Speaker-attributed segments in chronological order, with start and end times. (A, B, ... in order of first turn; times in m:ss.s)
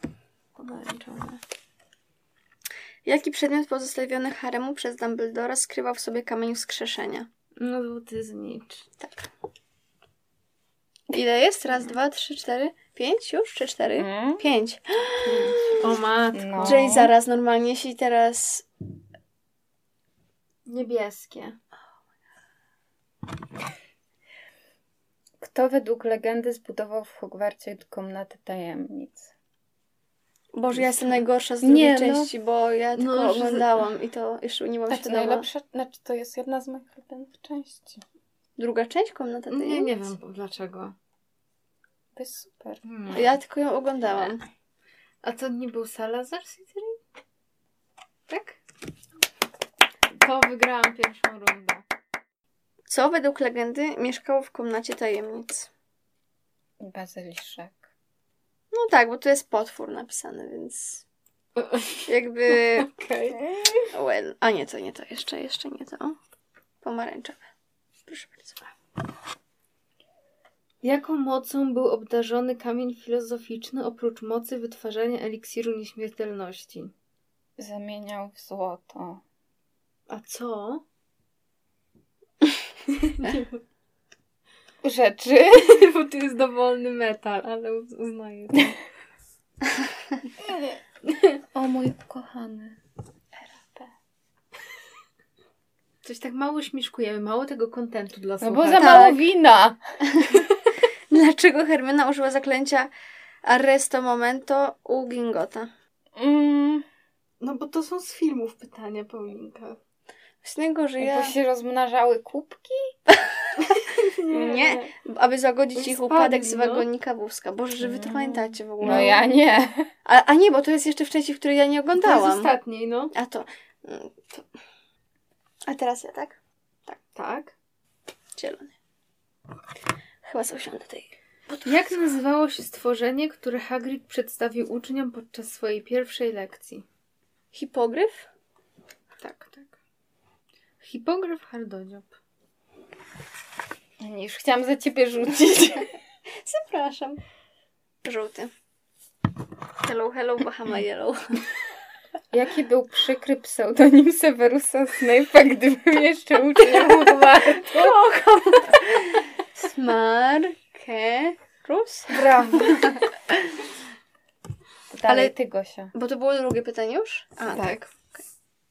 0:00.6-0:01.4 A
0:03.0-0:07.3 B
0:07.6-0:08.9 A
0:09.0-0:09.3 B
0:11.1-0:15.8 B
0:14.0-0:14.4 C
0:15.2-0:15.8 C
0:15.8-0:16.9 A
0:16.3-0:17.1 C
0:16.6-0:18.6 B
0:20.6-0:21.6 A
0:25.4-0:29.3 C
0:30.5-0:35.5 B
0:31.6-0:32.3 C
0:33.0-0:33.7 A
0:34.9-0:38.0 C
0:38.6-0:40.1 B
0:39.5-0:40.9 A
0:42.2-0:42.8 C
0:42.8-0:43.2 A
0:43.1-0:44.4 B
0:45.2-0:47.0 A
0:48.3-0:48.6 A
0:50.1-0:51.8 A
0:52.9-0:55.7 B
0:56.8-0:57.8 C
0:58.7-1:01.0 B
1:01.6-1:03.6 A
1:02.1-1:02.9 B
1:03.9-1:06.2 B
1:06.8-1:07.4 B
1:08.1-1:08.6 B
1:10.8-1:16.9 A
1:17.6-1:19.2 C
1:20.1-1:20.8 A
1:23.0-1:23.5 A
1:24.8-1:25.8 C
1:25.5-1:28.8 A
1:31.5-1:32.8 C
1:33.4-1:33.9 C
1:36.0-1:39.2 A
1:38.4-1:39.8 C
1:38.8-1:39.2 B
1:41.1-1:42.9 B
1:43.4-1:45.7 B
1:46.2-1:46.9 C
1:47.4-1:49.8 A
1:50.4-1:51.3 B
1:51.0-1:53.0 C
1:53.1-1:59.2 B
1:53.8-1:54.9 A
1:55.8-1:56.9 A
1:57.8-1:59.9 C
2:00.0-2:02.5 B
2:02.0-2:03.1 A
2:03.1-2:04.4 B
2:05.7-2:07.0 B
2:07.1-2:07.5 A
2:08.4-2:08.7 B
2:10.2-2:11.8 B
2:11.6-2:16.8 A
2:17.5-2:18.3 B
2:19.2-2:19.7 A
2:20.8-2:22.1 A
2:24.0-2:25.9 C
2:26.4-2:27.2 B
2:28.0-2:28.5 B
2:29.8-2:31.4 B
2:32.3-2:38.0 C
2:37.6-2:43.0 B
2:42.2-2:42.8 A
2:42.2-2:42.8 C
2:44.9-2:45.9 C
2:45.1-2:45.3 B
2:45.9-2:48.1 B
2:47.5-2:47.8 A